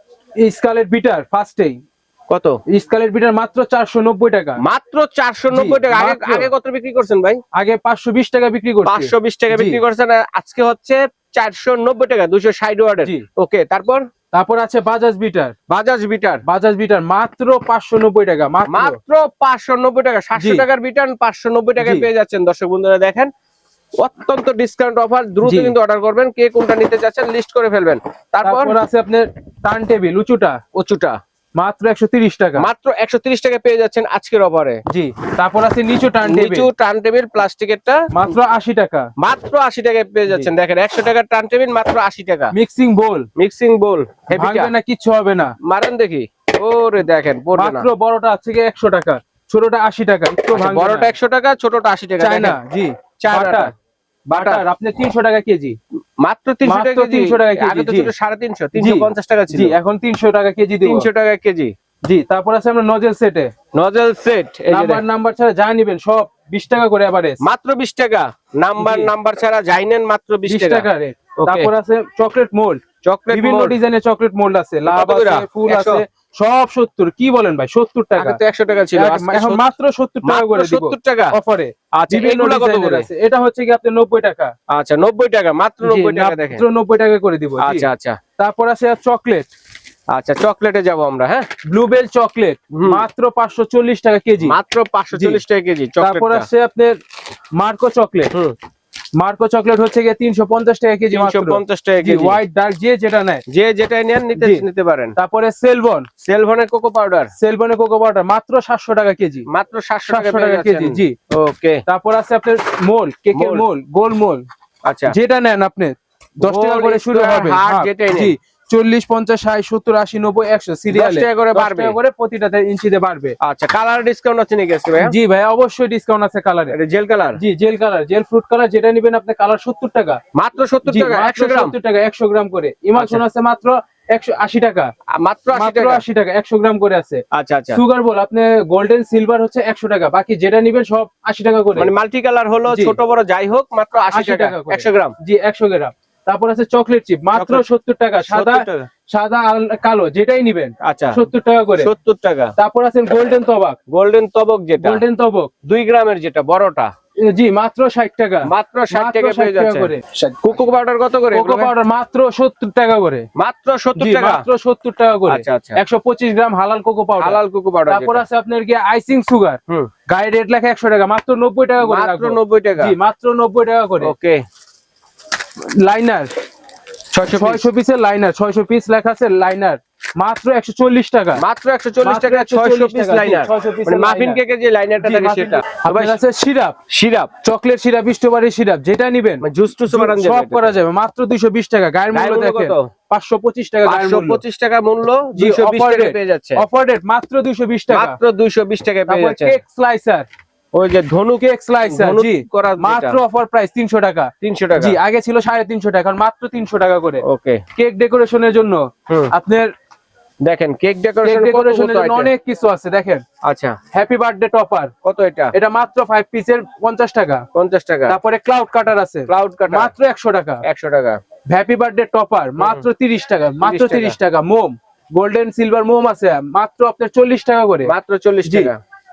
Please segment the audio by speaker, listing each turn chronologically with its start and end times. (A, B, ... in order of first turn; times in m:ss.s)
0:00.4-0:01.8 A
0:02.3-0:02.6 B
0:02.7-0:04.6 A
0:04.6-0:07.4 B
0:05.5-0:06.5 A
0:07.5-0:09.8 A
0:08.9-0:14.0 B
0:14.3-0:15.5 A
0:15.7-0:16.4 B
0:16.5-0:19.0 A
0:18.7-0:23.3 B
0:20.4-0:20.7 A
0:21.8-0:22.1 A
0:24.0-0:28.8 B
0:25.4-0:25.8 A
0:28.4-0:30.6 A
0:30.8-0:31.2 B
0:31.6-0:32.7 A
0:32.6-0:34.8 B
0:34.9-0:36.7 A
0:36.2-0:38.0 B
0:38.1-0:39.1 A
0:39.2-0:42.5 B
0:42.5-0:43.3 A
0:43.4-0:44.7 B
0:44.3-0:45.5 A
0:45.6-0:47.9 B
0:47.6-0:51.1 A
0:50.5-0:52.6 B
0:52.2-0:53.7 A
0:53.2-0:53.7 B
0:54.3-0:54.6 B
0:54.4-0:55.8 A
0:56.2-0:59.8 B
0:56.6-0:58.1 A
0:58.8-1:01.1 A
1:00.8-1:01.7 B
1:02.1-1:03.5 A
1:03.8-1:05.0 B
1:04.7-1:07.4 A
1:07.4-1:11.7 B
1:08.8-1:09.1 A
1:10.5-1:12.8 A
1:13.0-1:13.8 B
1:13.3-1:18.4 A
1:14.9-1:16.0 B
1:18.2-1:19.7 B
1:19.0-1:24.5 A
1:20.2-1:21.4 B
1:22.0-1:23.1 B
1:24.7-1:26.6 B
1:25.8-1:29.5 A
1:27.6-1:28.2 B
1:30.1-1:31.5 B
1:31.7-1:34.6 A
1:32.7-1:33.0 B
1:34.4-1:36.5 B
1:35.1-1:35.4 A
1:36.0-1:37.0 A
1:37.6-1:38.3 A
1:39.2-1:43.4 A
1:41.1-1:42.4 B
1:43.5-1:45.2 B
1:44.4-1:44.6 A
1:45.2-1:46.1 A
1:46.2-1:47.3 B
1:47.4-1:49.5 A
1:49.5-1:51.8 B
1:50.1-1:51.2 A
1:51.9-1:54.4 A
1:53.4-1:53.6 B
1:54.9-1:55.2 B
1:55.1-2:03.4 A
1:56.4-1:58.3 B
2:00.9-2:02.0 B
2:03.4-2:05.2 B
2:05.0-2:06.8 A
2:06.7-2:07.4 B
2:07.4-2:10.2 A
2:10.4-2:11.8 B
2:10.9-2:14.9 A
2:13.0-2:13.2 B
2:15.2-2:16.0 B
2:15.5-2:17.2 A
2:17.3-2:17.8 B
2:17.7-2:21.9 A
2:21.8-2:25.1 B
2:22.7-2:23.0 A
2:24.1-2:31.9 A
2:27.4-2:27.6 B
2:28.2-2:28.9 B
2:30.8-2:31.2 B
2:31.8-2:32.5 B
2:32.6-2:33.8 A
2:33.9-2:35.0 B
2:34.8-2:35.5 A
2:35.6-2:36.9 B
2:37.2-2:40.0 A
2:38.5-2:41.7 B
2:41.3-2:43.3 A
2:43.4-2:44.4 B
2:44.0-2:54.1 A
2:45.3-2:45.8 B
2:47.2-2:48.2 B
2:51.8-2:52.9 B
2:54.0-2:54.4 B
2:55.8-2:56.3 A
2:57.1-2:57.6 B
2:57.3-3:01.4 A
3:01.4-3:06.2 B
3:02.0-3:04.4 A
3:05.0-3:06.8 A
3:06.9-3:07.3 B
3:07.4-3:14.4 A
3:09.4-3:10.8 B
3:12.1-3:12.9 B
3:13.8-3:16.6 B
3:15.4-3:18.2 A
3:17.9-3:19.6 B
3:19.1-3:20.3 A
3:20.7-3:23.2 B
3:21.4-3:27.2 A
3:24.4-3:25.0 B
3:27.2-3:27.6 B
3:27.8-3:29.7 A
3:30.4-3:32.3 B
3:31.2-3:33.2 A
3:33.4-3:33.8 B
3:33.9-3:34.9 A
3:35.0-3:35.5 B
3:35.5-3:37.4 A
3:37.6-3:38.2 B
3:38.1-3:40.6 A
3:39.3-3:39.9 B
3:40.6-3:41.2 B
3:41.5-3:47.9 A
3:43.6-3:44.2 B
3:47.8-3:48.8 B
3:48.5-3:48.7 A